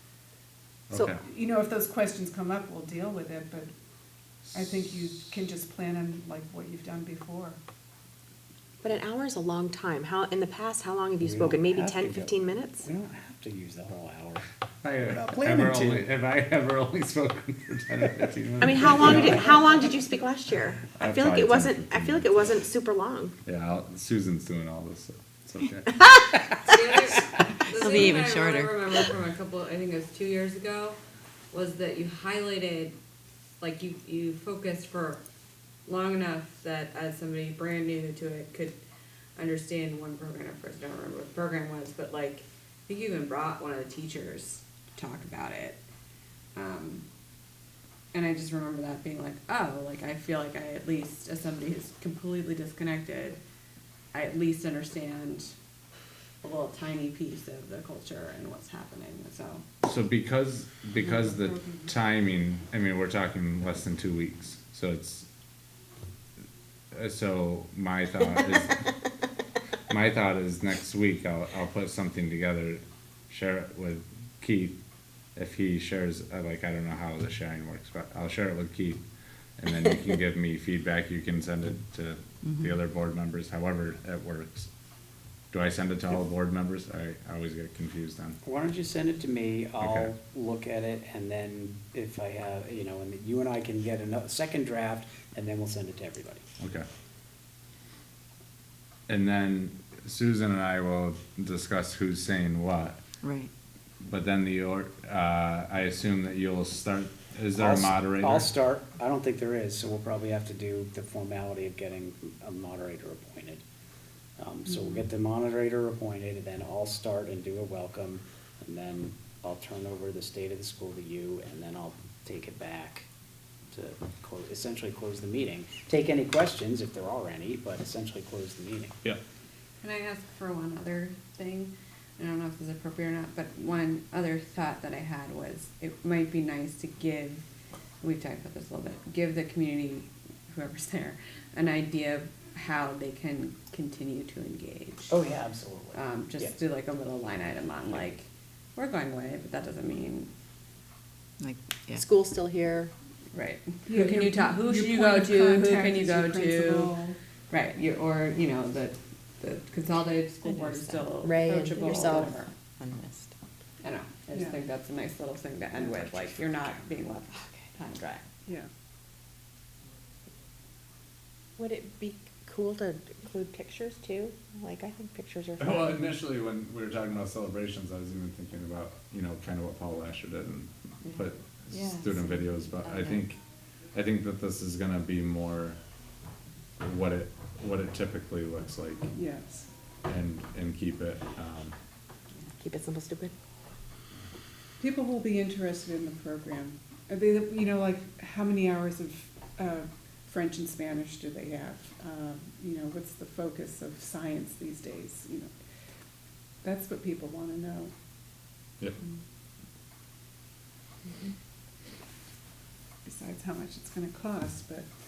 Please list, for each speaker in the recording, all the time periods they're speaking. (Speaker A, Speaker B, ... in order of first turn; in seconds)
Speaker A: 0.9-1.2, 14.8-19.5, 20.9-22.6, 23.4-26.0, 59.8-65.3, 66.9-68.9, 69.9-74.8, 75.3-79.0, 79.6-84.7, 85.5-88.4, 89.8-90.1, 96.6-96.8, 99.1-103.0, 104.0-108.5, 175.6-183.4, 183.9-185.8, 186.8-189.1, 190.0-191.7
Speaker B: 0.9-3.7, 4.5-7.6, 61.2-61.8, 153.8-157.2, 189.1-189.7, 194.8-205.5, 206.6-207.9, 213.1-214.9
Speaker C: 8.8-12.9, 18.6-23.3, 151.9-152.9, 161.2-162.4, 171.6-176.0, 192.6-193.3
Speaker D: 11.2-14.4, 15.1-16.1, 88.4-96.4, 107.6-113.6, 114.4-123.1, 123.7-128.9, 145.1-146.5
Speaker E: 26.6-31.0, 31.5-33.0, 33.6-35.2, 35.9-38.8, 39.4-45.8, 46.5-47.0, 48.1-53.4, 54.1-55.5, 56.4-59.6, 129.8-137.4, 138.0-145.2, 145.9-150.3, 153.3-156.9, 157.5-162.5, 163.8-168.3
Speaker F: 27.8-29.0, 82.5-82.7, 103.2-103.5, 151.4-152.0, 160.4-163.3, 181.8-183.2